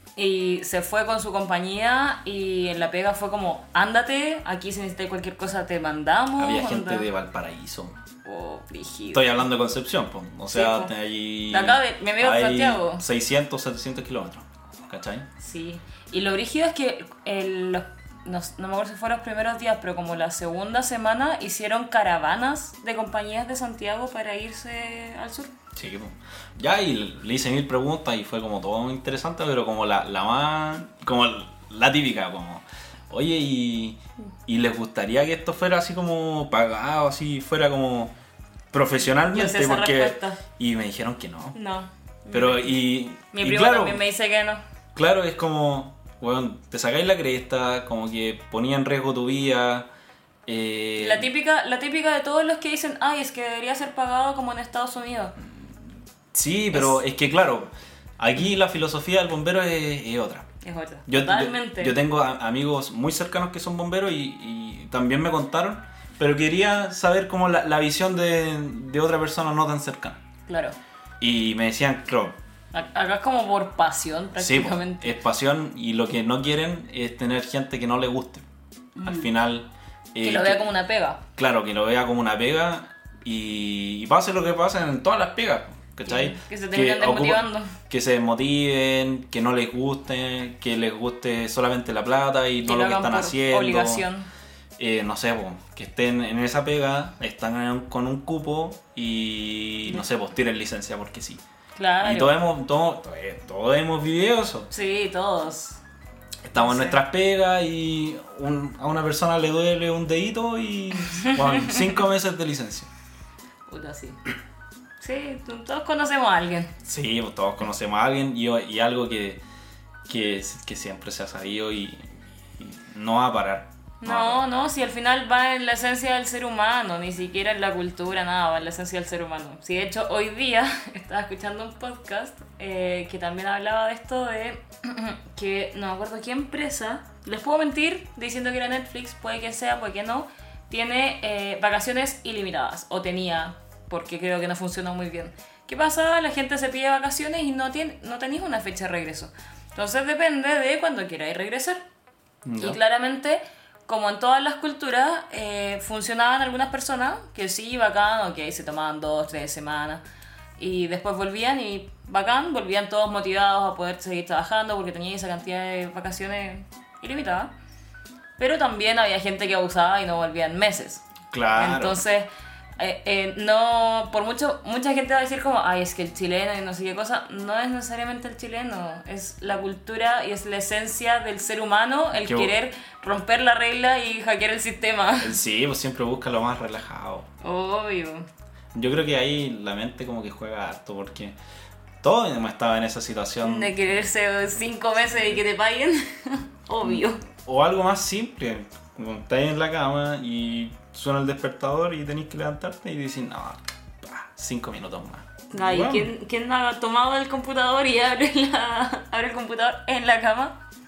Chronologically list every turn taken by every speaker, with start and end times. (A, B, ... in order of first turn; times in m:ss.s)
0:00.2-0:07.0 A
0:06.4-0:08.0 B
0:08.2-0:09.4 A
0:09.1-0:15.3 B
0:10.5-0:10.9 A
0:11.5-0:13.0 A
0:15.4-0:25.5 A
0:25.7-0:38.1 B
0:38.7-0:41.6 B
0:39.3-0:40.4 A
0:41.5-0:42.7 A
0:42.3-0:44.0 B
0:43.3-0:44.6 A
0:44.9-0:49.9 B
0:50.4-0:51.3 B
0:51.0-0:55.3 A
0:56.3-1:00.5 B
0:56.7-0:57.0 A
1:00.6-1:02.0 A
1:01.1-1:10.2 B
1:10.5-1:10.8 A
1:11.2-1:12.4 B
1:12.7-1:15.2 A
1:14.3-1:18.4 B
1:19.0-1:19.3 A
1:19.0-1:20.7 B
1:20.2-1:21.2 A
1:21.4-1:34.0 B
1:26.1-1:27.7 A
1:32.6-1:34.3 A
1:34.8-1:41.4 B
1:41.8-1:42.3 A
1:42.0-1:44.7 B
1:44.7-1:45.8 A
1:46.4-1:52.9 B
1:46.6-1:47.0 A
1:51.2-1:51.7 A
1:53.7-1:54.2 A
1:55.0-1:56.7 A
1:56.8-1:59.4 B
2:00.1-2:04.4 B
2:04.0-2:31.8 A
2:32.4-2:32.8 B
2:32.6-2:40.0 A
2:40.6-2:47.5 A
2:48.4-2:51.0 A
2:51.3-2:52.0 B
2:51.5-3:05.4 A
3:02.1-3:02.5 B
3:05.2-3:07.3 B
3:07.4-3:08.3 A
3:08.7-3:11.4 B
3:12.0-3:13.7 B
3:13.4-3:17.2 A
3:16.8-3:26.1 B
3:25.5-3:30.6 A